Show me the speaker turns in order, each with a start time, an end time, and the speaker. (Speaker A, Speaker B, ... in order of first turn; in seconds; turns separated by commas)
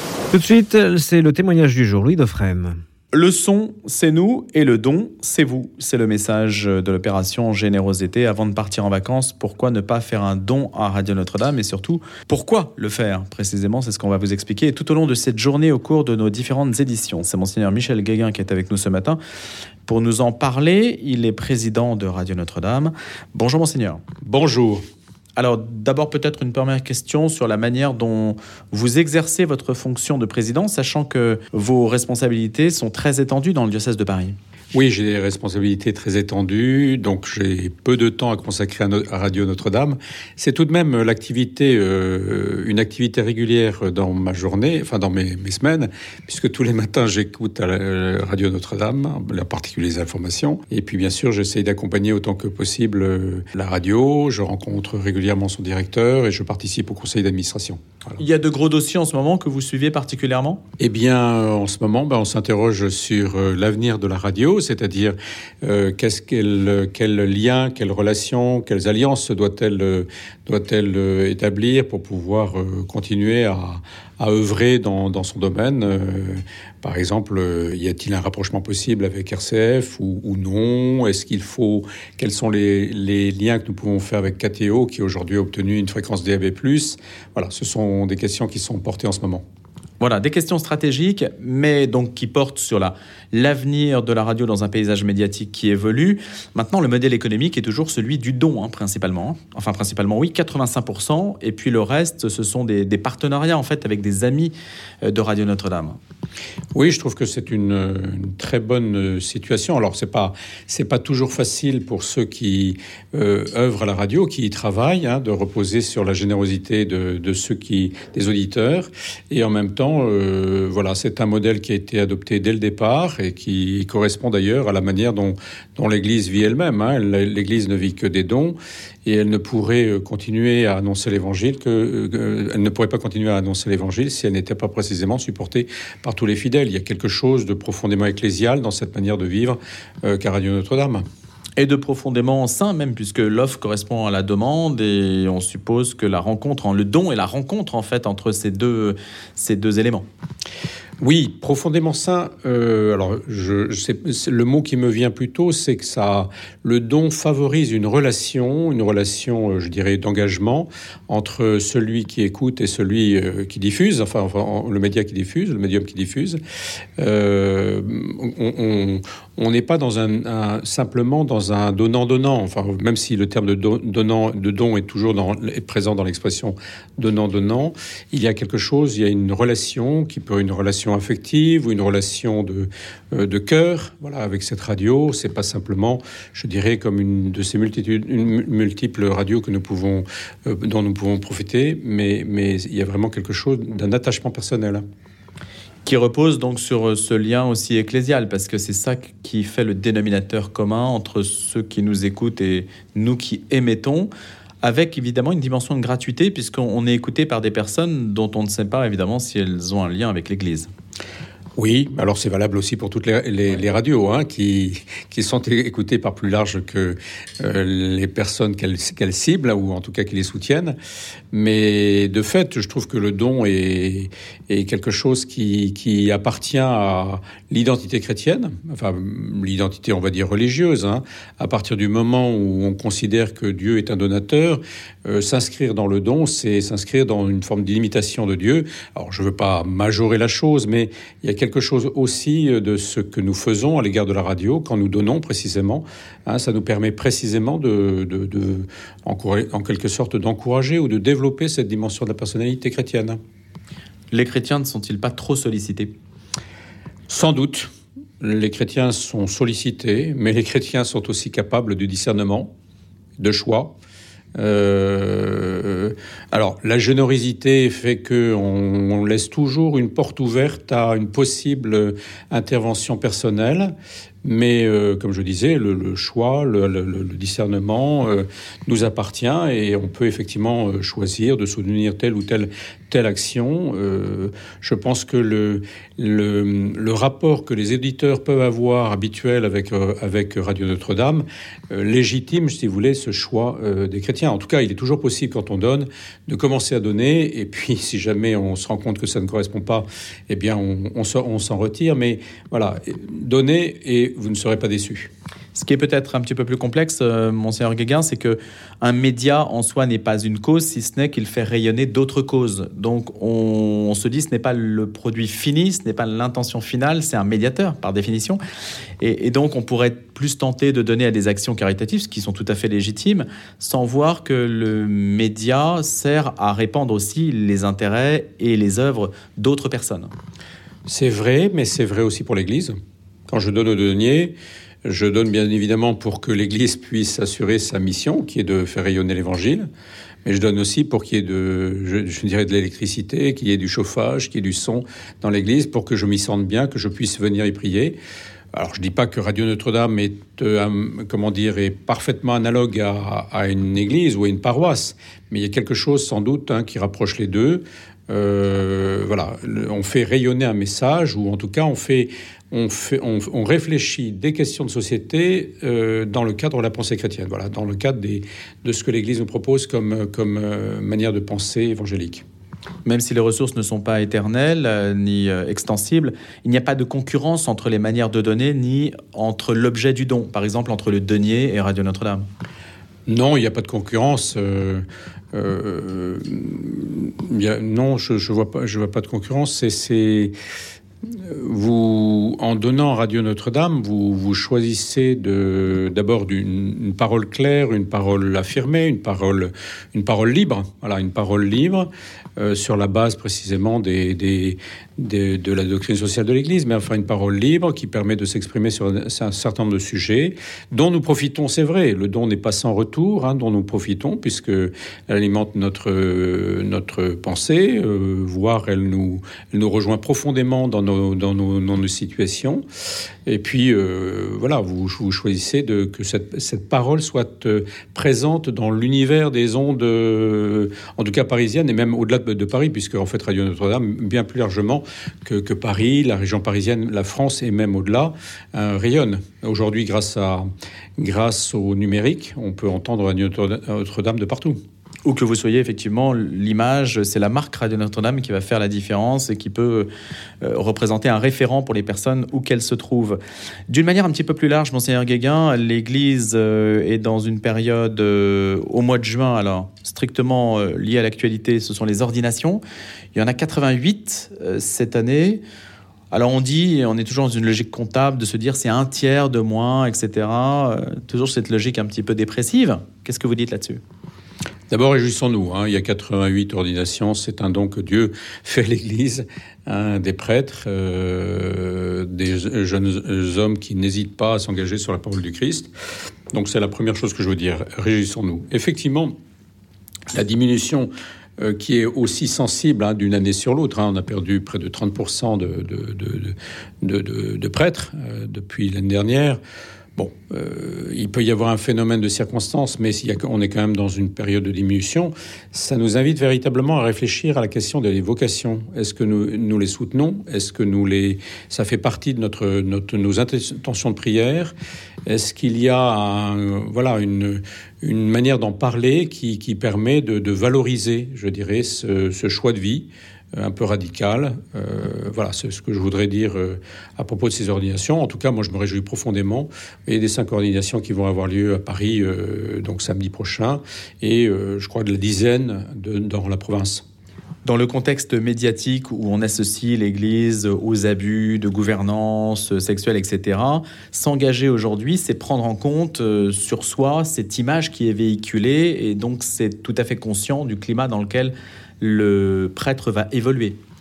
Speaker A: 0.3-2.8, Speaker B: 3.1-19.2, Speaker B: 19.9-24.0, Speaker C: 24.2-24.8, Speaker B: 25.4-34.4, Speaker C: 34.7-57.8, Speaker B: 58.2-60.6, Speaker C: 60.8-89.4, Speaker B: 90.0-106.0, Speaker C: 106.7-141.0, Speaker B: 141.6-150.1, Speaker C: 151.0-166.4, Speaker C: 167.0-194.8, Speaker B: 195.8-204.1, Speaker B: 204.6-210.7, Speaker C: 211.6-220.7, Speaker C: 221.3-253.2, Speaker B: 254.1-255.9, Speaker C: 257.1-257.7, Speaker C: 258.2-262.5, Speaker C: 263.2-263.8, Speaker C: 264.3-273.7, Speaker C: 274.2-305.1, Speaker B: 305.5-318.4, Speaker B: 319.0-330.1, Speaker C: 330.9-332.8, Speaker C: 333.3-339.6, Speaker C: 340.2-348.0, Speaker C: 348.5-372.2, Speaker B: 372.8-382.3, Speaker C: 383.1-390.3, Speaker C: 391.1-422.6, Speaker C: 423.2-440.4, Speaker C: 441.0-444.6, Speaker B: 445.0-449.9, Speaker B: 450.4-462.6, Speaker B: 463.1-465.4, Speaker B: 466.1-473.8, Speaker C: 474.7-485.7, Speaker C: 486.3-489.1, Speaker C: 490.1-499.4, Speaker C: 500.0-514.5, Speaker C: 515.0-536.8, Speaker B: 537.4-553.6